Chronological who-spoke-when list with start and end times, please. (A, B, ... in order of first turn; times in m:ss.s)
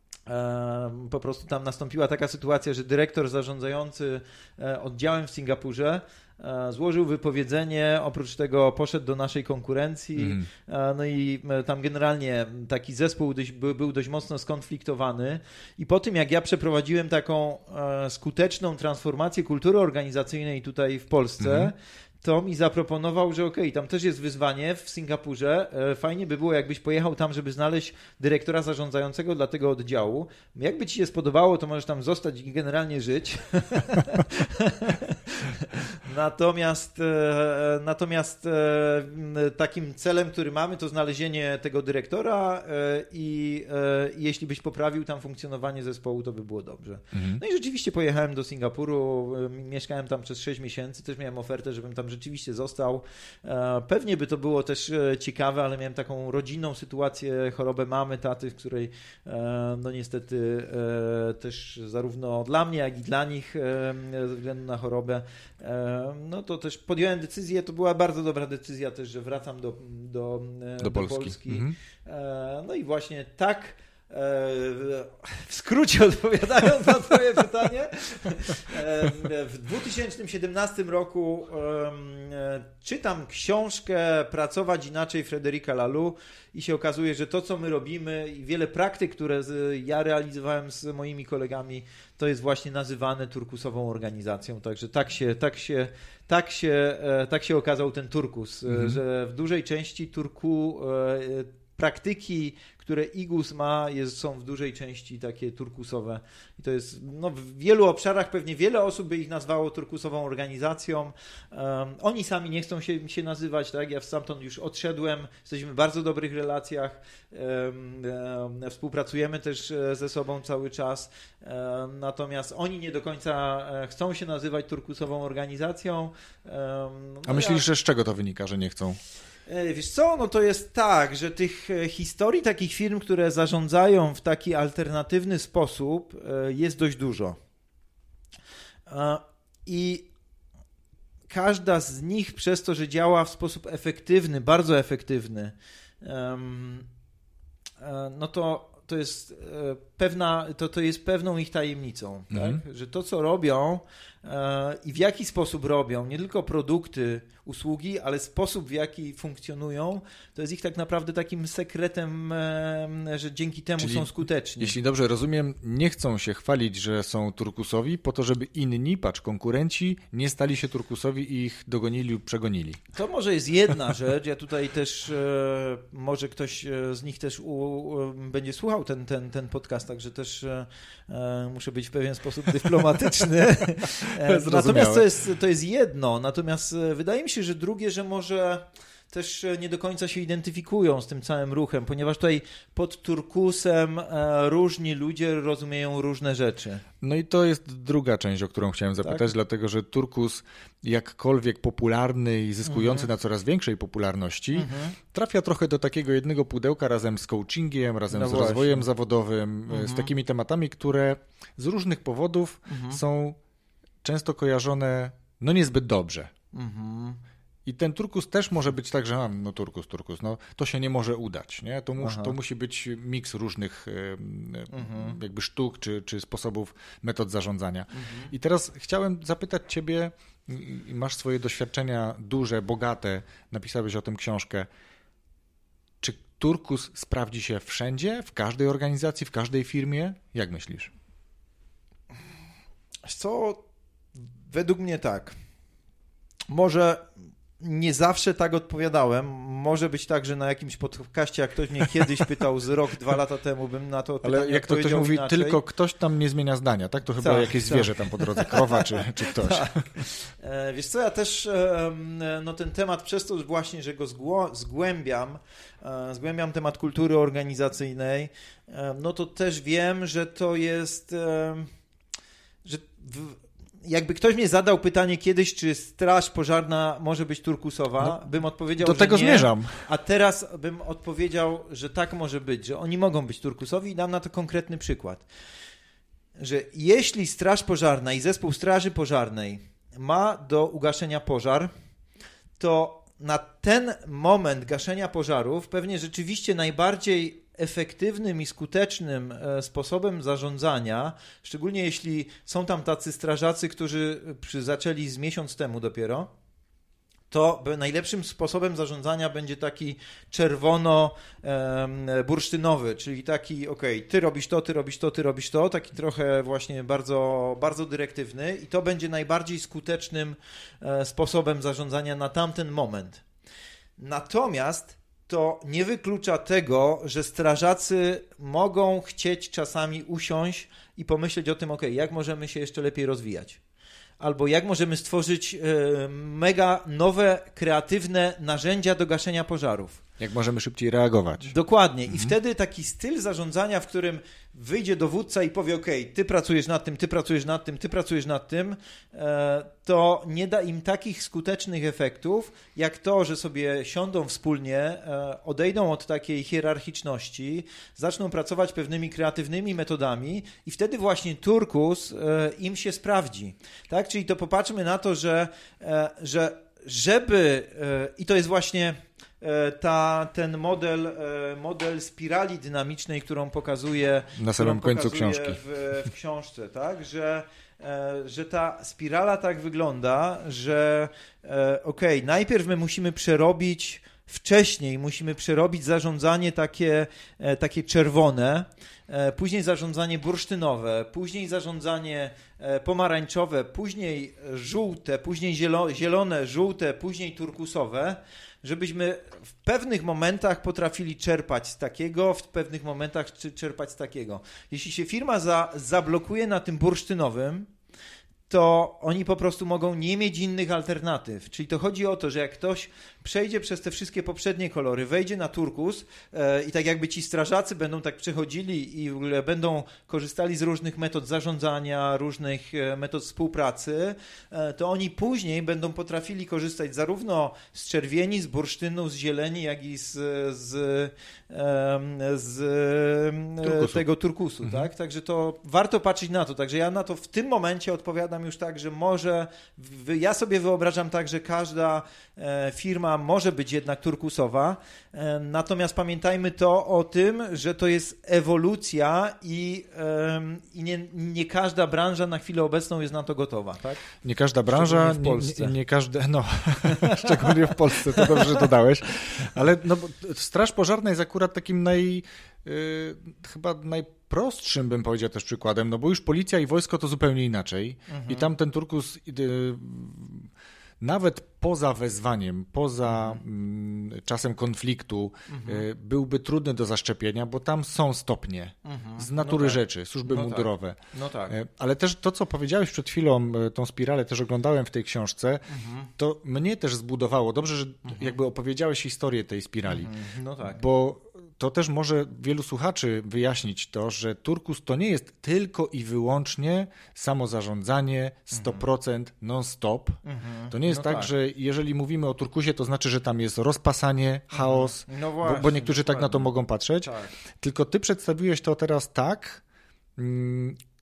0:00.3-2:07.7 A
0:10.2-0:10.5 B
0:21.4-0:21.7 B
0:47.1-0:47.4 B
1:10.8-1:11.8 B
1:38.7-1:39.0 B
2:07.3-2:09.0 B
2:09.5-2:17.4 A
2:18.9-2:20.1 A
2:21.3-2:26.9 A
2:27.8-2:44.8 A
2:32.3-2:32.6 B
2:43.8-2:52.8 B
2:52.9-3:16.8 A
3:04.0-3:05.1 B
3:17.0-3:33.4 B
3:19.0-3:19.3 A
3:22.6-3:23.1 A
3:24.5-3:25.0 A
3:28.1-3:28.9 A
3:29.7-3:30.1 A
3:32.7-3:33.0 A
3:34.0-3:36.3 B
3:36.5-3:37.2 A
3:37.6-3:54.7 B
3:42.0-3:42.4 A
3:44.7-3:45.2 A
3:47.9-3:48.3 A
3:56.0-4:00.9 B
4:03.1-4:03.7 A
4:04.5-4:05.4 A
4:06.5-4:15.6 A
4:14.2-4:19.8 B
4:17.2-4:31.7 A
4:32.6-4:45.3 A
4:38.0-4:39.9 B
4:46.4-4:51.7 A
4:52.6-5:06.3 A
5:07.3-5:23.2 A
5:24.0-5:33.6 A
5:34.2-5:40.0 A
5:40.2-5:41.5 B
5:41.4-6:47.7 A
6:14.4-6:15.6 B
6:48.5-7:34.0 A
7:13.6-7:14.0 B
7:14.6-7:14.9 B
7:34.2-7:50.5 B
7:34.7-7:35.7 A
7:36.9-7:38.6 A
7:48.1-7:48.5 A
7:51.0-8:01.0 B
7:53.1-7:53.4 A
7:55.5-7:55.8 A
7:58.8-8:01.6 A
8:01.5-8:05.6 B
8:05.7-8:06.1 A
8:06.2-8:10.1 B
8:09.9-8:10.8 A
8:10.6-8:20.2 B
8:18.5-8:18.8 A
8:20.2-8:21.3 A
8:20.7-8:29.6 B
8:24.5-8:27.3 A
8:30.2-8:30.8 B